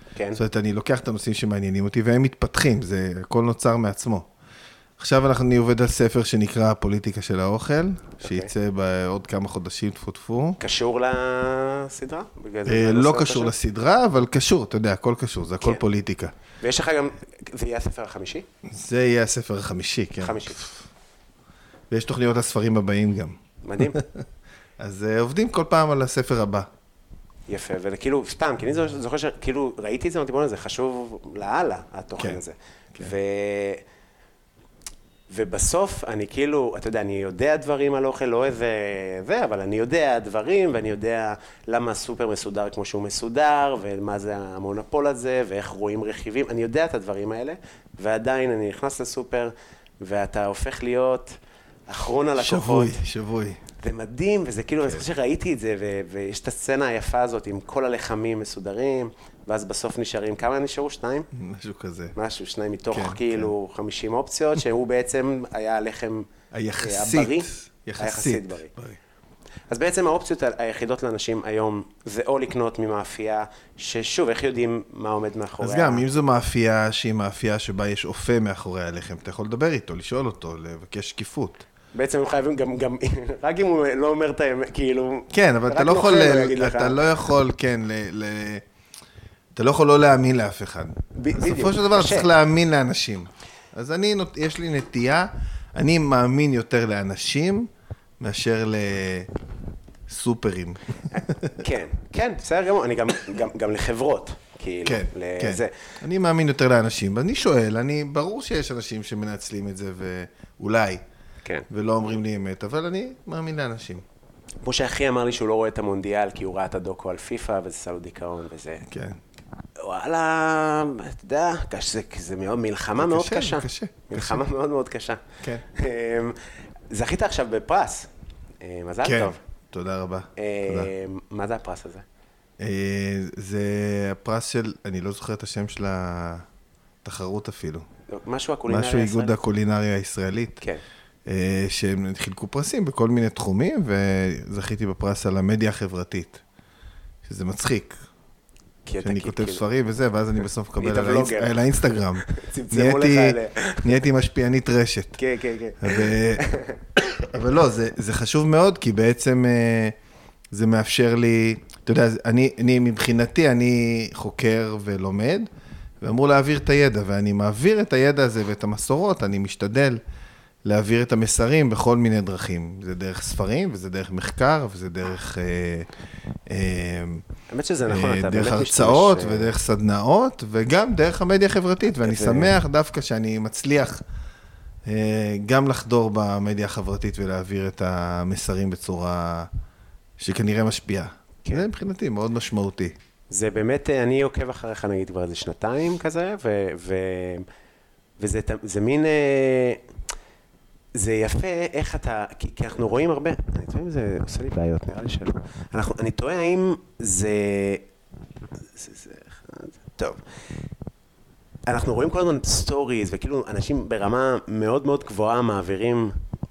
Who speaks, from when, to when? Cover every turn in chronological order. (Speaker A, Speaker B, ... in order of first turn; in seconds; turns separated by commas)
Speaker A: 0.2-0.4, Speaker B: 0.4-4.3, Speaker B: 5.0-10.6, Speaker A: 8.2-8.5, Speaker A: 10.6-13.5, Speaker B: 12.7-16.3, Speaker A: 16.6-18.5, Speaker B: 18.7-20.9, Speaker A: 20.2-20.6, Speaker B: 21.9-24.2, Speaker A: 23.6-24.0, Speaker B: 24.8-26.7, Speaker A: 27.5-33.8, Speaker A: 35.3-51.4, Speaker A: 51.9-53.0, Speaker B: 52.4-53.6, Speaker A: 53.8-61.3, Speaker B: 61.3-62.1, Speaker A: 62.2-66.3, Speaker B: 62.9-63.5, Speaker B: 66.5-69.0, Speaker A: 66.8-68.7, Speaker A: 69.7-76.0, Speaker B: 75.6-81.7, Speaker A: 81.9-87.1, Speaker B: 85.3-88.6, Speaker B: 89.5-97.7, Speaker A: 91.2-92.3, Speaker B: 98.2-99.3, Speaker B: 100.1-101.6, Speaker A: 101.1-105.7, Speaker B: 104.8-111.0, Speaker B: 111.7-114.0, Speaker A: 114.6-118.8, Speaker B: 118.8-119.2, Speaker A: 119.8-126.4, Speaker B: 123.0-124.4, Speaker A: 126.9-128.1, Speaker A: 128.6-129.4, Speaker B: 129.0-130.9, Speaker A: 130.4-132.1, Speaker B: 132.6-136.5, Speaker B: 137.0-137.8, Speaker A: 138.1-139.4, Speaker B: 138.7-140.6, Speaker B: 141.3-146.4, Speaker B: 147.2-148.0, Speaker A: 148.9-149.6, Speaker B: 149.0-155.2, Speaker A: 150.8-154.0, Speaker A: 155.2-157.3, Speaker B: 155.8-156.4, Speaker B: 157.2-160.0, Speaker B: 160.5-165.5, Speaker B: 166.0-170.0, Speaker B: 170.7-175.9, Speaker B: 176.5-177.2, Speaker A: 177.5-179.5, Speaker B: 177.9-184.0, Speaker A: 182.0-182.6, Speaker B: 184.9-189.5, Speaker B: 190.2-192.9, Speaker A: 193.3-197.5, Speaker A: 198.2-199.8, Speaker A: 200.9-207.8, Speaker A: 208.8-210.2, Speaker A: 211.7-216.1